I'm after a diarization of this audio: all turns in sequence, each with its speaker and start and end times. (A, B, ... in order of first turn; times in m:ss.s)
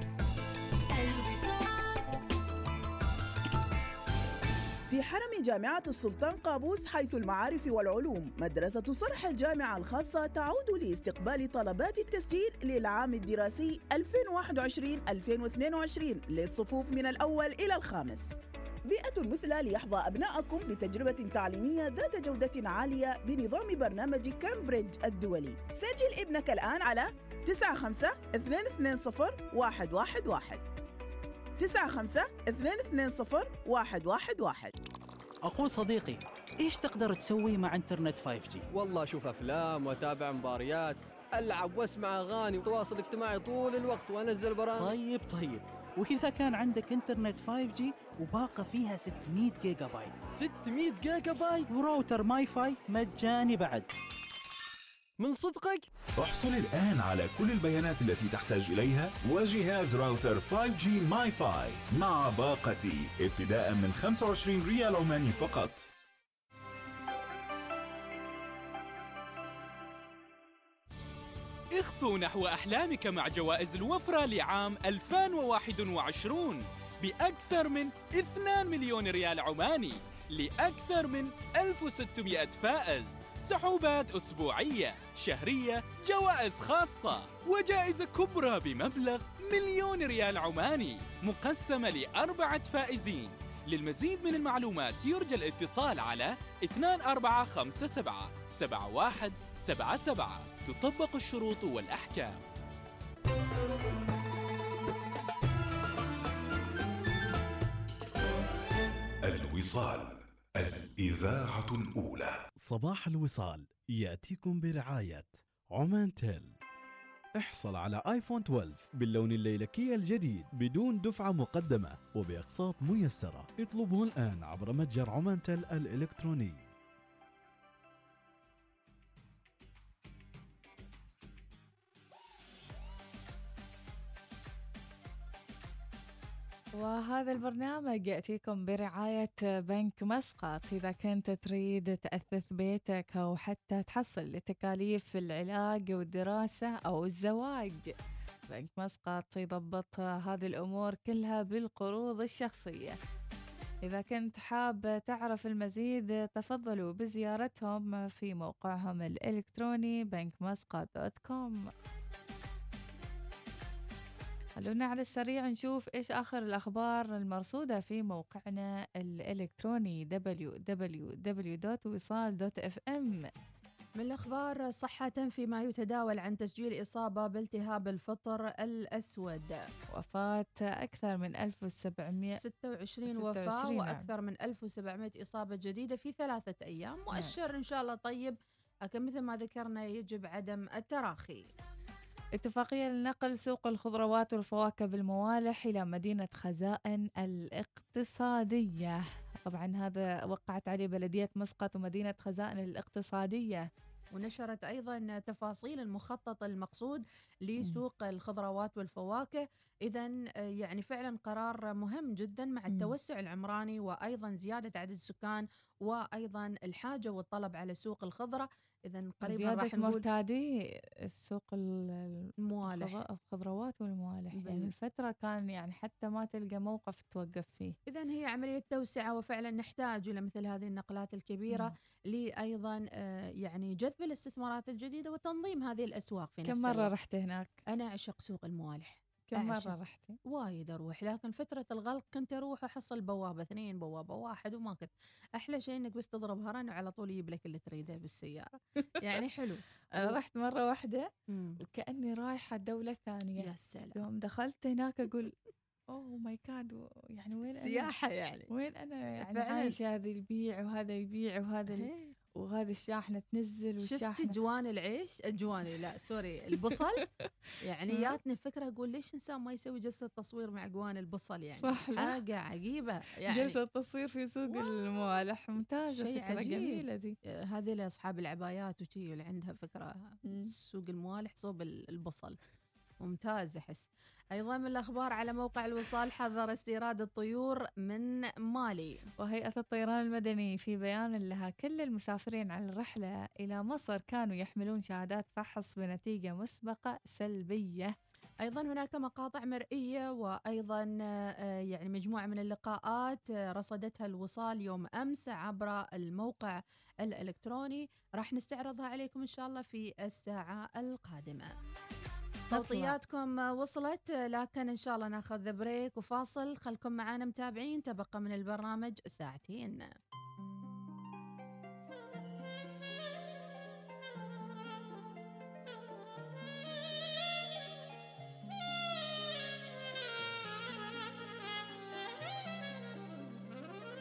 0:04.9-0:18.3 A
0:18.9-0:30.6 A
0:31.6-0:34.7 A
0:35.5-0:38.6 B
0:38.7-0:44.9 C
0:44.8-0:50.2 B
0:50.4-0:51.7 C
0:51.7-0:53.9 B
0:55.2-0:55.8 C
0:56.2-1:05.9 D
1:11.7-1:42.4 E
1:49.3-1:52.3 F
1:52.6-1:56.5 G
1:57.3-2:06.7 G
2:16.8-2:27.9 H
2:28.5-2:33.0 H
2:33.8-2:41.7 H
2:44.6-2:53.2 H
2:54.0-2:59.6 I
2:59.9-3:02.4 H
3:02.4-3:11.4 I
3:03.1-3:04.1 H
3:12.4-3:23.7 H
3:24.1-3:40.0 I
3:39.2-3:40.5 H
3:41.1-3:47.7 H
3:42.4-3:43.0 I
3:44.4-3:44.7 I
3:47.9-3:56.9 I
3:56.4-3:57.6 H
3:57.7-3:59.7 I
3:59.3-4:00.2 H
4:00.3-4:08.5 I
4:09.0-4:10.2 I
4:10.0-4:11.1 H
4:11.3-4:11.6 I
4:11.6-4:15.3 H
4:13.4-4:14.0 I
4:15.9-4:17.9 H
4:17.5-4:18.5 I
4:18.5-4:24.3 H
4:19.2-4:19.8 I
4:21.7-4:22.1 I
4:23.8-4:27.0 I
4:27.6-4:33.6 I
4:31.6-4:32.2 H
4:33.3-4:37.1 H
4:34.5-4:34.9 I
4:35.9-4:36.8 I
4:37.5-4:42.4 I
4:43.0-4:49.0 I
4:49.2-4:57.9 H
4:58.4-5:11.5 I
5:12.5-5:13.0 H
5:12.5-5:19.9 I